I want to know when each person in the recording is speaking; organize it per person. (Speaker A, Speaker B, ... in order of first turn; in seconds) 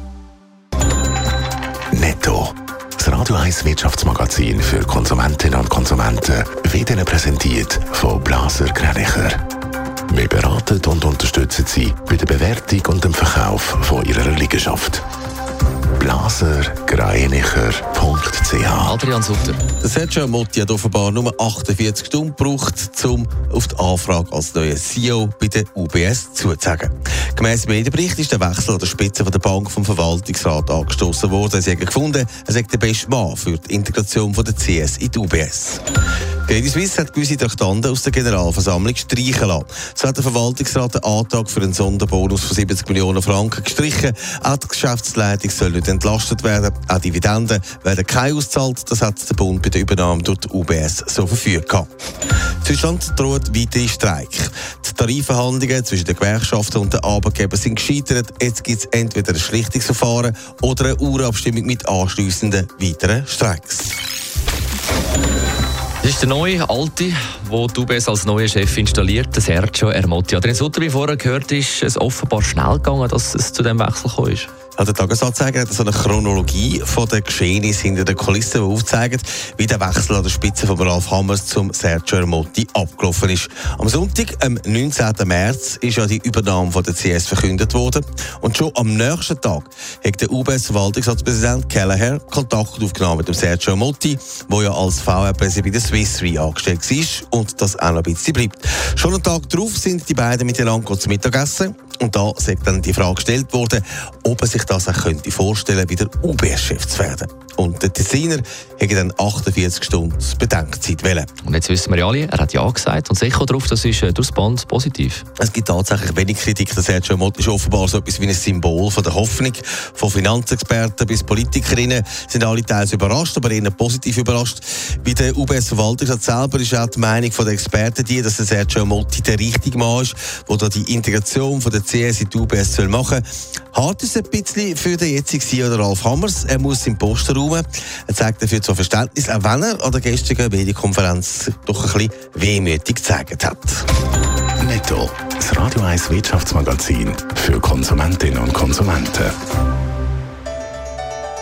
Speaker A: 1.9-9.4, 10.1-15.0, 16.0-18.9, 144.6-149.3
Speaker B: 18.8-19.6, 66.0-74.5, 111.4-115.2
Speaker C: 19.8-35.8, 36.5-51.9, 52.6-64.0, 74.8-111.3, 115.4-143.9